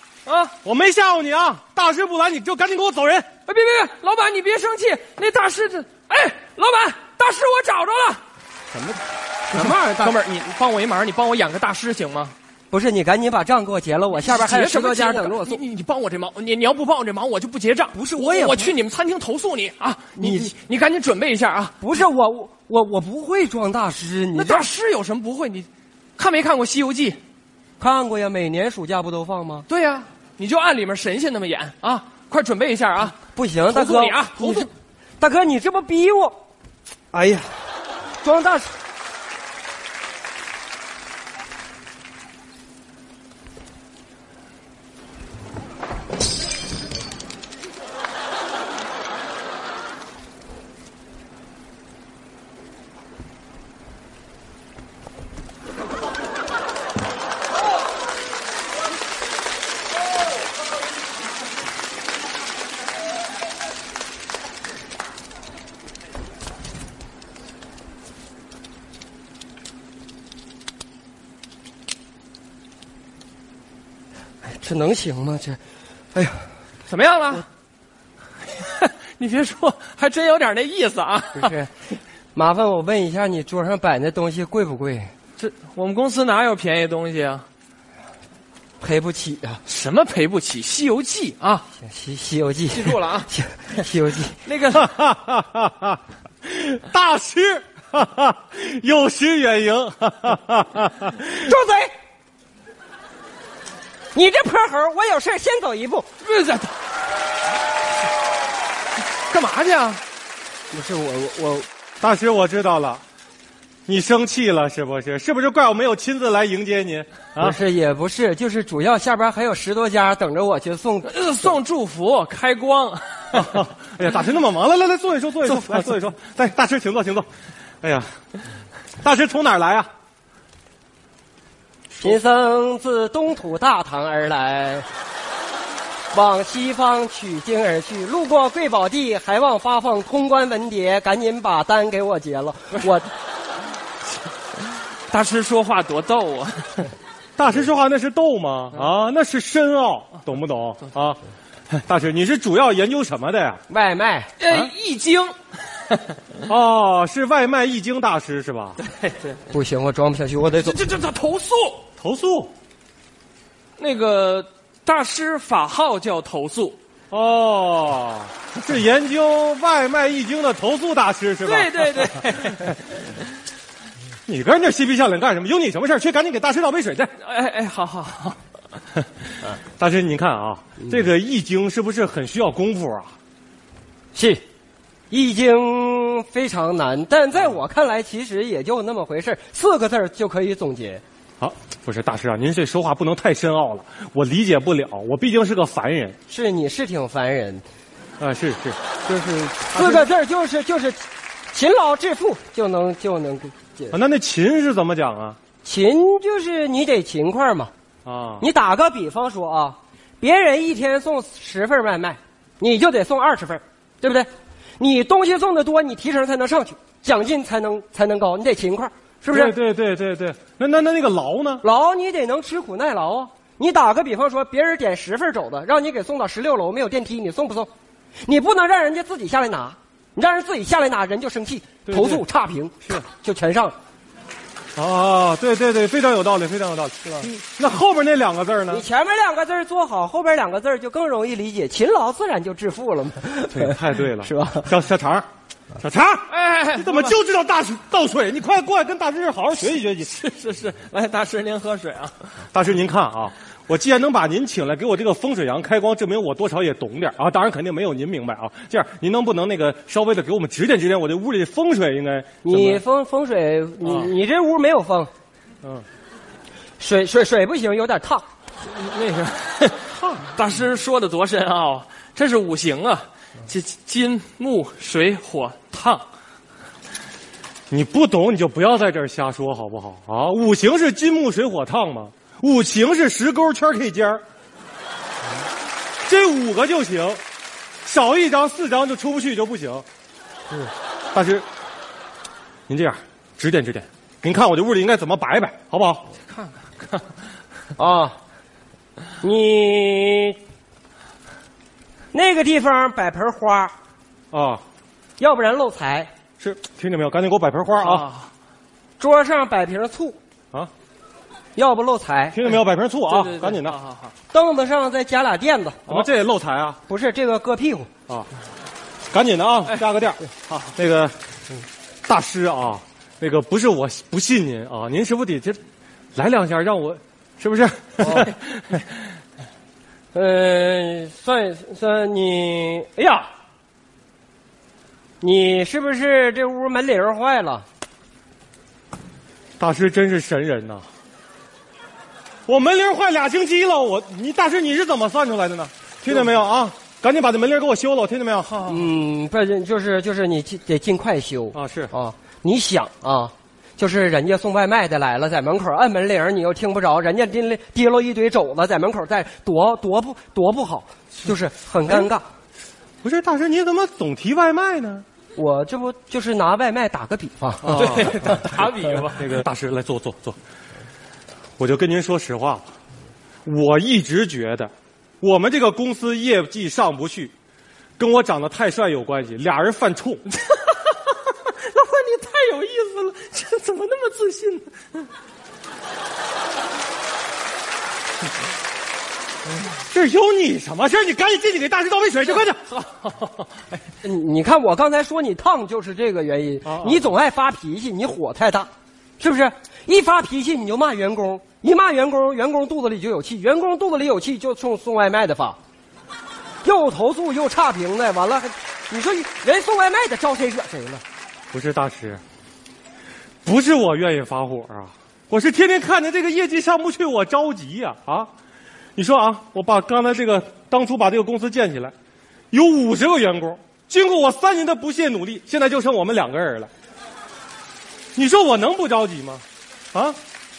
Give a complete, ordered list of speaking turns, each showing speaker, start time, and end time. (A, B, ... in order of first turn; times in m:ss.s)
0:00.2-0:00.5 A
0:00.6-0:03.3 B
0:03.4-0:08.2 A
0:08.7-0:10.2 C
0:09.5-0:12.3 A
0:12.7-0:15.6 C
0:14.1-0:21.8 A
0:17.9-0:18.7 C
0:20.2-0:20.5 C
0:21.8-0:24.7 C
0:24.3-0:27.2 A
0:27.8-0:29.6 C
0:29.7-0:34.7 A
0:33.2-0:34.7 C
0:35.2-0:36.4 C
0:37.1-0:37.6 C
0:38.2-0:38.7 C
1:14.4-1:15.6 C
1:16.1-1:16.5 C
1:16.9-1:17.4 A
1:18.6-1:21.5 A
1:21.3-1:21.7 C
1:22.3-1:25.1 C
1:25.4-1:27.4 A
1:28.8-1:29.6 C
1:29.7-1:31.6 A
1:31.8-1:34.4 C
1:32.7-1:33.3 A
1:34.4-1:34.9 A
1:34.8-1:41.5 B
1:41.2-1:41.9 C
1:44.1-1:46.1 C
1:46.2-1:46.7 A
1:49.3-1:50.0 A
1:50.7-1:51.7 C
1:52.0-1:53.0 B
1:53.9-1:57.6 B
1:57.4-2:01.5 C
2:01.0-2:03.5 A
2:03.3-2:07.3 B
2:05.6-2:05.9 A
2:07.8-2:08.1 B
2:09.0-2:09.9 B
2:11.9-2:14.9 C
2:16.1-2:23.1 C
2:25.1-2:26.9 A
2:27.4-2:33.6 B
2:33.7-2:34.3 C
2:34.4-2:35.3 A
2:36.5-2:38.8 B
2:39.5-2:40.8 C
2:40.6-2:41.8 A
2:42.0-2:42.5 B
2:43.8-2:46.8 A
2:47.1-2:52.1 B
2:51.4-2:53.0 A
2:54.3-2:57.1 B
2:57.2-2:58.4 A
2:59.8-3:03.1 B
3:04.1-3:04.4 C
3:05.1-3:11.0 C
3:11.4-3:16.2 B
3:16.3-3:17.6 C
3:18.2-3:18.8 B
3:19.1-3:24.0 C
3:19.7-3:20.1 B
3:23.9-3:25.4 B
3:25.6-3:27.7 C
3:28.0-3:28.4 B
3:28.4-3:39.5 C
3:39.3-3:41.6 B
3:41.6-3:47.7 C
3:48.2-3:53.7 C
3:51.8-3:52.2 B
3:54.8-3:58.8 B
3:58.7-4:04.7 C
4:03.5-4:05.2 B
4:05.8-4:10.1 B
4:06.3-4:07.1 A
4:10.0-4:12.1 A
4:12.5-4:22.8 B
4:22.4-4:25.1 C
4:23.8-4:24.1 B
4:26.8-4:28.2 C
4:28.6-4:36.0 A
4:30.0-4:30.2 B
4:37.7-4:44.2 B
4:46.0-4:47.2 B
4:47.8-4:49.8 B
4:51.1-4:51.4 B
4:52.7-4:56.1 B
4:56.3-4:57.0 A
4:57.8-4:58.2 C
4:59.2-5:00.4 C
5:02.1-5:03.7 C
5:04.3-5:04.6 B
5:05.2-5:06.1 C
5:06.4-5:08.0 B
5:07.8-5:08.3 A
5:09.0-5:10.2 C
5:11.6-5:12.4 C
5:12.3-5:13.8 B
5:13.1-5:14.1 A
5:14.3-5:16.1 C
5:15.9-5:16.8 B
5:16.9-5:17.9 C
5:19.1-5:21.1 B
5:22.1-5:25.6 B
5:26.2-5:28.8 B
5:28.0-5:28.3 C
5:30.1-5:33.3 C
5:35.2-5:37.6 C
5:39.6-5:40.8 B
5:42.5-5:48.6 B
5:48.5-5:48.8 A
5:48.6-6:02.2 C
5:51.5-5:51.9 B
6:03.0-6:05.0 B
6:05.4-6:08.4 C
6:07.6-6:08.4 B
6:07.6-6:09.4 A
6:09.2-6:10.4 B
6:11.6-6:12.6 B
6:13.4-6:17.3 B
6:18.0-6:20.2 B
6:20.4-6:25.0 A
6:29.9-6:32.7 B
6:34.0-6:45.6 C
6:36.6-6:37.0 B
6:46.6-6:51.0 C
6:51.5-6:52.2 B
6:53.4-6:58.3 B
6:59.0-7:01.9 B
7:02.5-7:06.7 B
7:08.1-7:10.2 B